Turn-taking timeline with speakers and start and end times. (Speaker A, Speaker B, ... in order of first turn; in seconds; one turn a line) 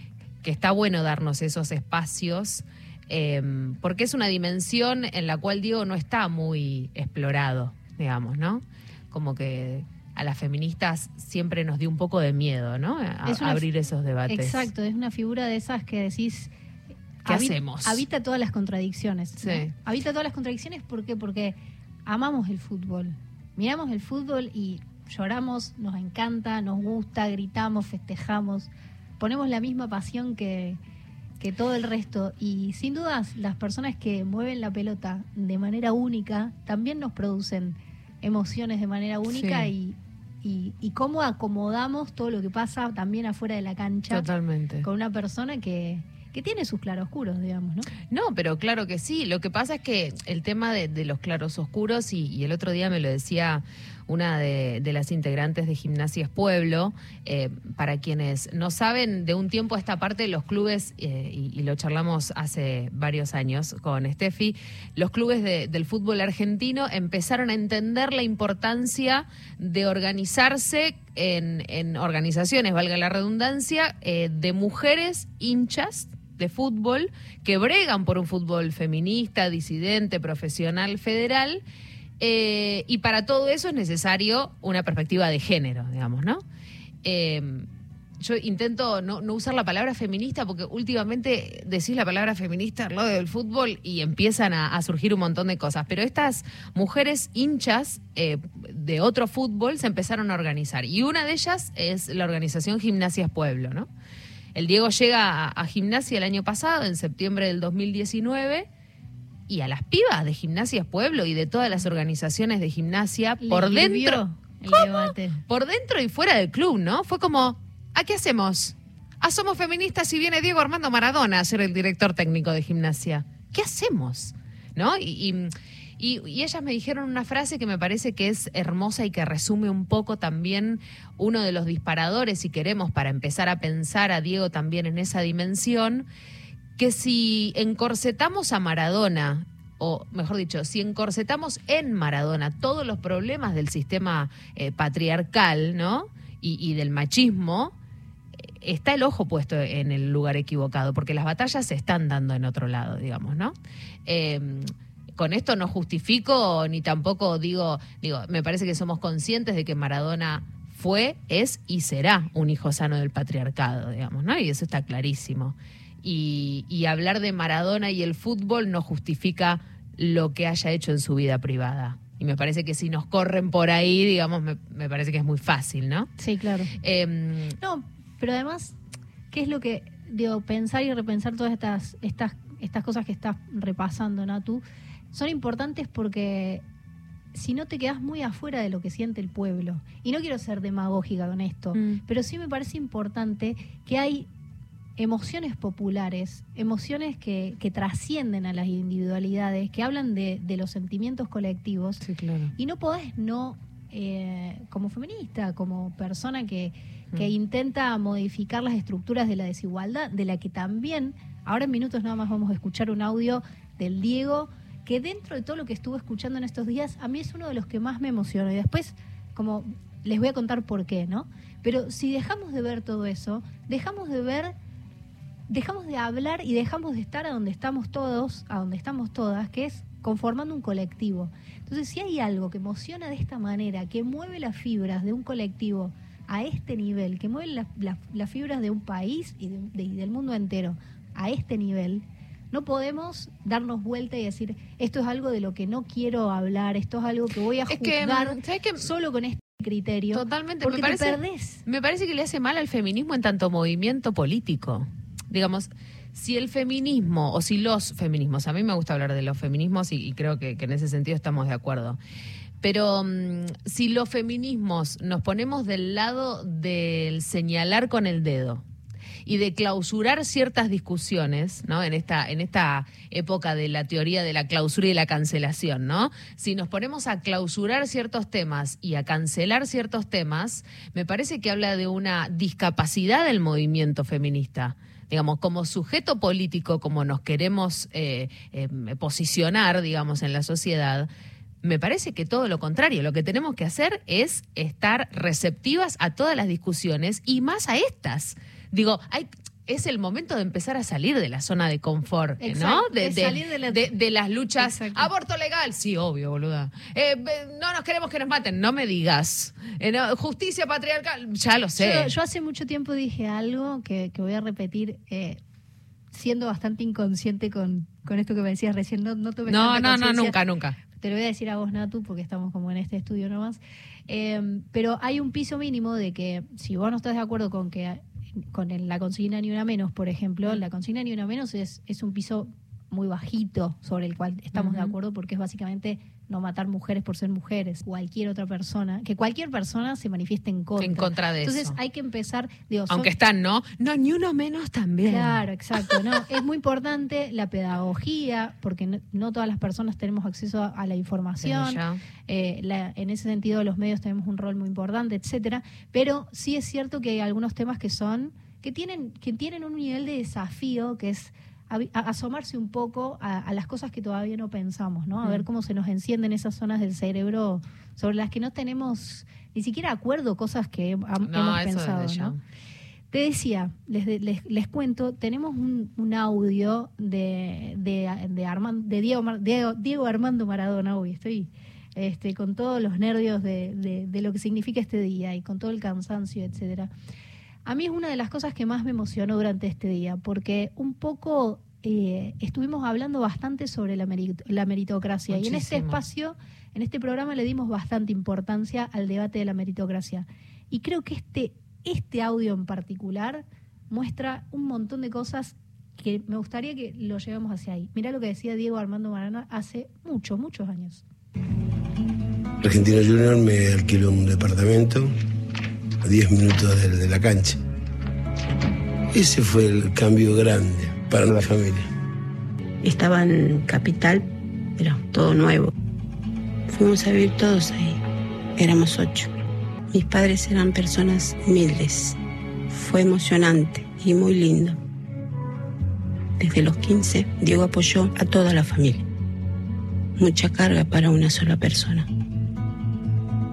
Speaker A: 0.4-14.7
Speaker B: 13.2-13.6
Speaker B: 14.3-16.5
Speaker B: 17.2-30.8
Speaker A: 17.2-18.0
Speaker A: 19.4-19.7
Speaker B: 31.4-44.3
Speaker A: 39.3-39.7
Speaker A: 44.1-44.9
Speaker B: 44.8-47.9
Speaker A: 48.1-81.6
Speaker A: 82.2-86.4
Speaker A: 87.0-87.7
Speaker A: 88.2-103.9
Speaker A: 104.5-108.7
Speaker A: 109.5-136.1
Speaker B: 113.4-115.4
Speaker A: 136.8-147.7
Speaker A: 148.6-153.5
Speaker A: 154.1-176.1
Speaker B: 176.2-176.7
Speaker A: 176.8-177.6
Speaker B: 177.6-178.7
Speaker B: 179.3-186.6
Speaker B: 187.3-194.3
Speaker A: 191.7-192.0
Speaker B: 195.0-202.0
Speaker A: 202.0-202.5
Speaker B: 202.6-224.5
Speaker B: 225.5-251.6
Speaker A: 247.7-248.9
Speaker A: 250.1-262.0
Speaker A: 262.6-268.6
Speaker A: 269.2-291.1
Speaker A: 291.6-312.1
Speaker B: 302.4-303.8
Speaker B: 304.6-305.1
Speaker B: 311.8-315.4
Speaker B: 316.1-343.1
Speaker A: 319.4-320.8
Speaker A: 334.5-334.9
Speaker A: 340.8-341.8
Speaker A: 342.9-346.0
Speaker B: 345.0-372.3
Speaker A: 351.4-352.0
Speaker A: 371.2-372.4
Speaker B: 373.1-386.9
Speaker B: 387.6-411.0
Speaker A: 395.3-396.0
Speaker C: 412.6-415.1
Speaker C: 416.0-417.6
Speaker C: 419.1-421.9
Speaker D: 422.8-425.7
Speaker D: 426.7-428.0
Speaker D: 428.6-429.3
Speaker D: 429.9-432.2
Speaker D: 432.7-434.8
Speaker D: 436.4-439.1
Speaker D: 440.2-442.1